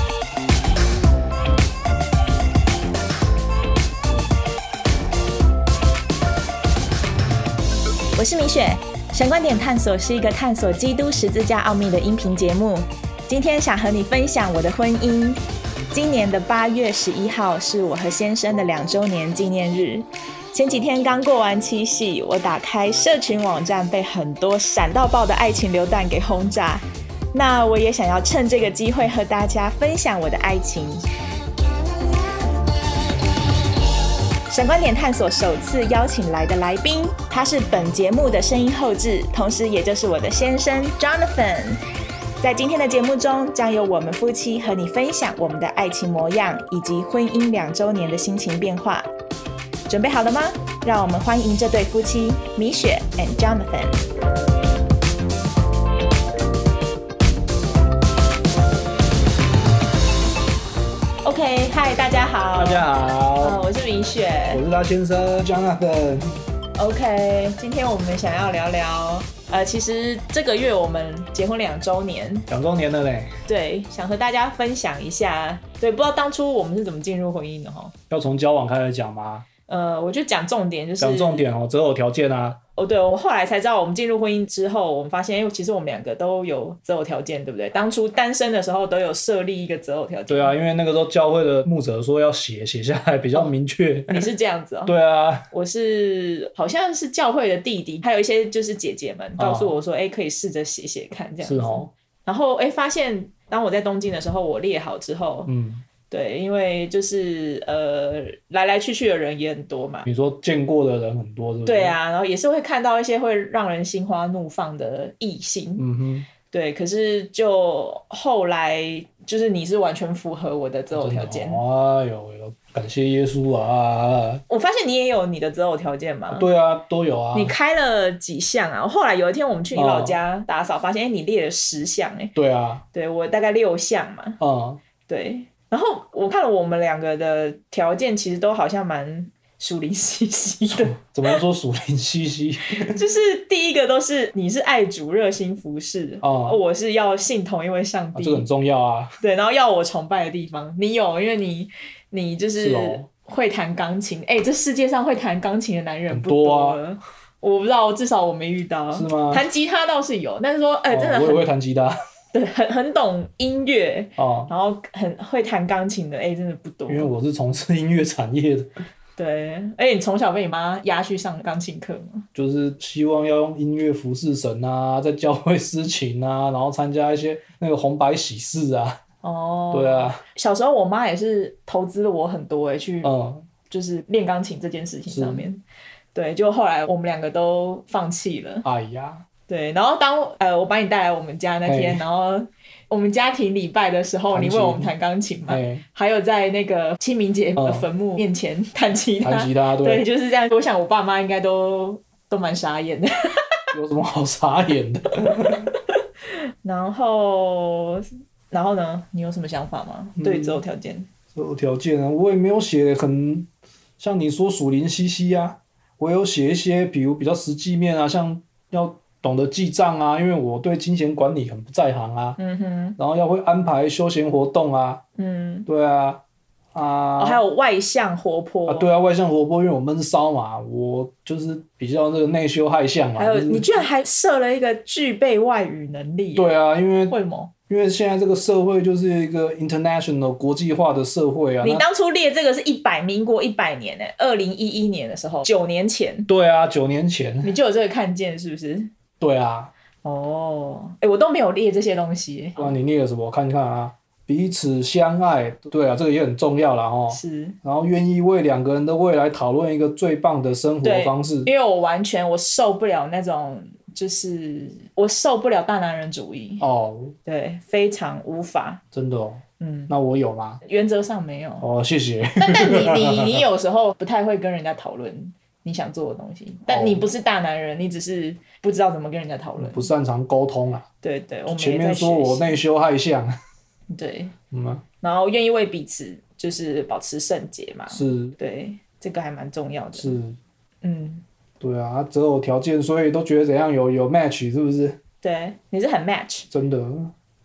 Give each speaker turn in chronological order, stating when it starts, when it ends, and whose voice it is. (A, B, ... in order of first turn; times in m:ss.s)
0:08.2-0:15.4 A
0:15.9-0:31.0 A
0:34.5-0:41.8 A
0:42.4-0:49.1 A
0:49.9-0:54.0 A
1:01.2-1:02.9 A
1:02.6-1:03.6 B
1:03.4-1:04.6 A
1:04.5-1:06.4 B
1:06.8-1:12.5 A
1:12.5-1:13.4 B
1:13.5-1:17.9 A
1:18.1-1:19.5 B
1:19.7-1:21.4 A
1:21.0-1:22.6 B
1:22.8-1:30.6 A
1:30.3-1:34.3 B
1:34.1-1:34.9 A
1:34.9-1:35.5 B
1:35.5-1:45.5 A
1:39.4-1:39.8 B
1:41.4-1:41.9 B
1:45.5-1:45.8 B
1:46.1-1:50.1 A
1:50.0-1:52.0 B
1:51.7-1:55.9 A
1:55.8-1:56.3 B
1:56.5-2:01.6 A
2:00.9-2:04.4 B
2:04.5-2:06.5 A
2:06.3-2:07.6 B
2:07.3-2:12.3 A
2:09.7-2:10.2 B
2:12.4-2:12.8 B
2:12.9-2:14.4 A
2:14.4-2:14.8 B
2:15.1-2:21.4 A
2:20.7-2:23.0 B
2:22.7-2:28.5 A
2:26.2-2:26.6 B
2:28.1-2:29.2 B
2:29.2-2:41.5 A
2:32.6-2:33.1 B
2:36.1-2:36.8 B
2:38.9-2:39.4 B
2:40.9-2:42.0 B
2:42.3-2:47.1 A
2:44.2-2:44.5 B
2:46.9-2:48.7 B
2:49.2-2:52.3 A
2:52.4-2:59.0 B
2:59.2-3:03.1 A
2:59.7-3:00.2 B
3:03.0-3:03.5 B
3:03.7-3:05.6 A
3:05.1-3:05.5 B
3:06.1-3:08.6 A
3:08.6-3:09.2 B
3:09.5-3:23.4 A
3:11.7-3:12.0 B
3:14.3-3:14.9 B
3:15.5-3:15.8 B
3:17.6-3:17.9 B
3:19.2-3:20.0 B
3:23.7-3:25.7 B
3:26.6-3:31.1 A
3:30.2-3:30.6 B
3:31.3-3:33.5 B
3:34.0-3:42.4 B
3:42.4-3:43.0 A
3:43.0-3:45.0 B
3:45.2-3:45.7 A
3:45.7-3:46.2 B
3:46.7-3:47.4 B
3:47.2-3:48.9 A
3:48.7-3:53.8 B
3:53.2-3:56.5 A
3:56.4-3:57.2 B
3:57.1-3:57.5 A
3:57.7-4:01.8 B
4:01.6-4:06.3 A
4:06.3-4:07.5 B
4:07.4-4:08.9 A
4:09.2-4:09.7 B
4:10.0-4:12.8 A
4:12.6-4:21.5 B
4:17.1-4:17.6 A
4:20.8-4:26.6 A
4:26.6-4:27.2 B
4:27.2-4:28.8 A
4:28.9-4:30.6 B
4:29.6-4:29.9 A
4:30.6-4:31.6 A
4:31.6-4:33.4 B
4:32.4-4:39.9 A
4:36.7-4:37.0 B
4:39.6-4:40.9 B
4:41.0-4:42.6 A
4:41.5-4:43.4 B
4:43.9-4:44.3 A
4:44.5-4:44.8 B
4:45.0-4:50.2 A
4:47.9-4:48.4 B
4:50.0-4:50.4 B
4:50.8-4:51.2 A
4:51.6-4:55.0 B
4:55.2-4:56.5 A
4:56.5-4:57.1 B